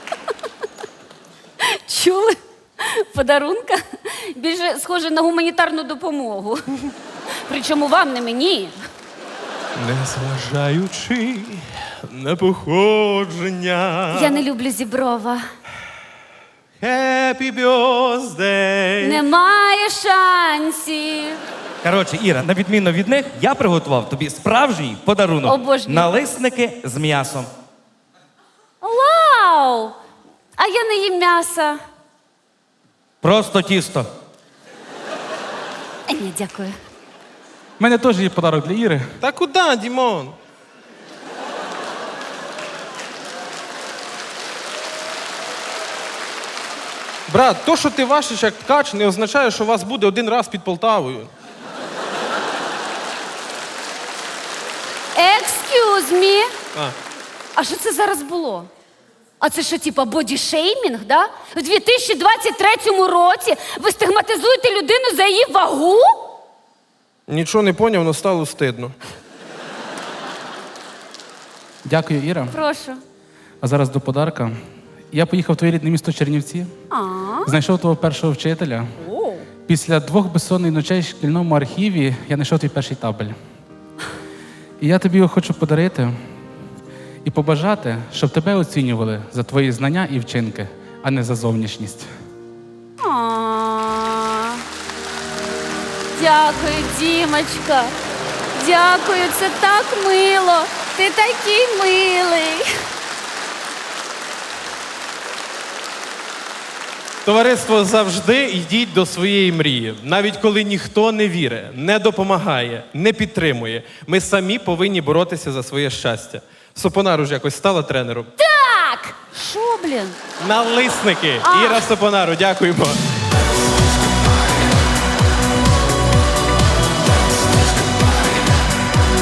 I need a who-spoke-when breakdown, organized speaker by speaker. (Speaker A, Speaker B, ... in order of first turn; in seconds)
Speaker A: 1.6-6.7, 7.5-8.8, 14.1-15.4, 19.0-21.4, 25.4-26.1, 28.8-29.9, 30.6-31.8, 36.1-36.8, 55.1-56.5, 57.5-58.7, 59.4-66.3, 72.5-73.0, 76.9-77.5, 79.0-79.5, 93.0-94.6, 96.2-98.0, 98.5-102.7, 118.4-120.2, 121.4-121.9
Speaker B: 9.8-14.4, 16.8-19.2, 39.2-40.4, 47.3-51.3, 67.3-68.9, 107.2-118.3, 120.4-123.0
Speaker C: 21.8-27.5, 33.2-34.1
Speaker D: 37.8-39.1, 71.8-72.5, 73.6-74.6, 75.1-76.7, 77.5-78.9, 79.7-83.4, 84.8-86.2, 87.2-92.1